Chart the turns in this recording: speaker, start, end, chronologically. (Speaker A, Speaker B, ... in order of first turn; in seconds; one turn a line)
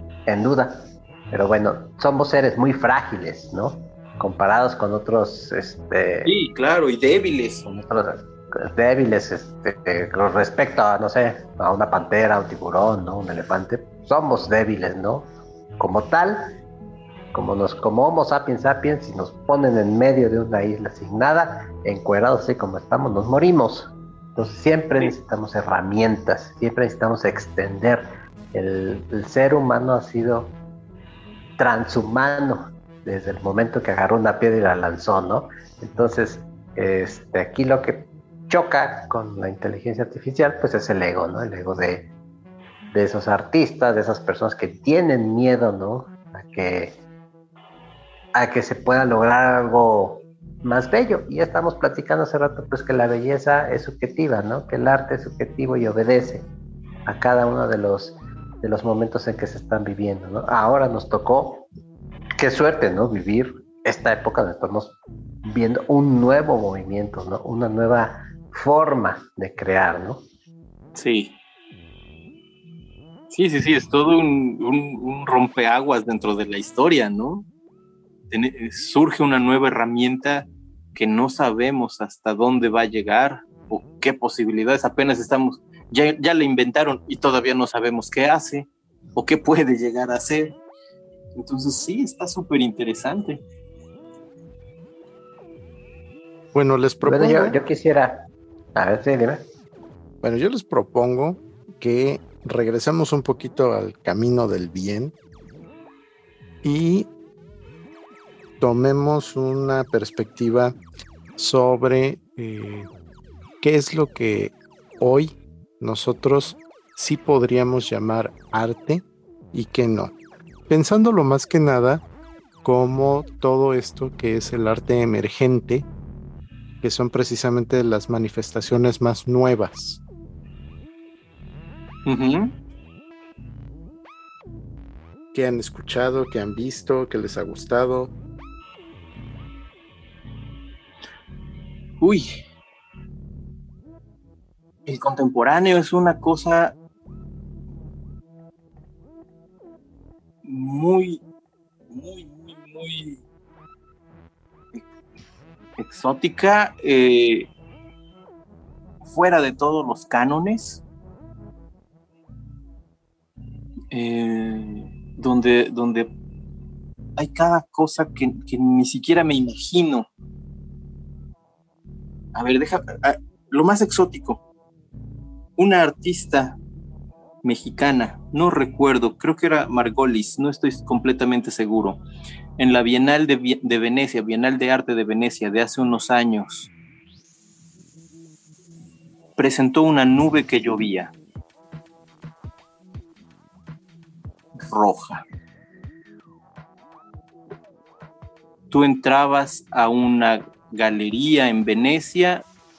Speaker A: 0.3-6.3
Speaker B: 6.2-7.7
Speaker A: 7.6-16.5
Speaker A: 17.3-30.6
Speaker A: 31.6-42.1
Speaker A: 42.9-47.0
Speaker A: 48.3-56.5
Speaker A: 57.1-61.7
Speaker A: 62.4-70.2
Speaker B: 71.0-71.4
Speaker B: 73.3-77.5
Speaker B: 78.3-90.6
Speaker B: 91.3-93.4
Speaker C: 96.5-97.6
Speaker A: 97.0-99.4
Speaker C: 100.2-105.1
Speaker C: 106.6-107.1
Speaker C: 108.6-110.7
Speaker C: 111.4-112.9
Speaker C: 113.6-120.1
Speaker C: 120.7-122.0
Speaker C: 122.6-125.9
Speaker C: 126.8-130.0
Speaker B: 132.1-132.6
Speaker C: 135.3-138.1
Speaker B: 142.0-142.4
Speaker B: 144.9-146.8
Speaker B: 150.4-151.2
Speaker B: 151.9-153.2
Speaker B: 155.8-157.5
Speaker B: 159.0-160.8
Speaker B: 163.9-166.1
Speaker B: 167.2-170.1
Speaker B: 172.3-174.4
Speaker B: 175.6-176.6
Speaker B: 177.4-182.0
Speaker B: 182.6-186.7
Speaker B: 189.4-191.1
Speaker B: 194.6-195.2
Speaker B: 198.7-202.4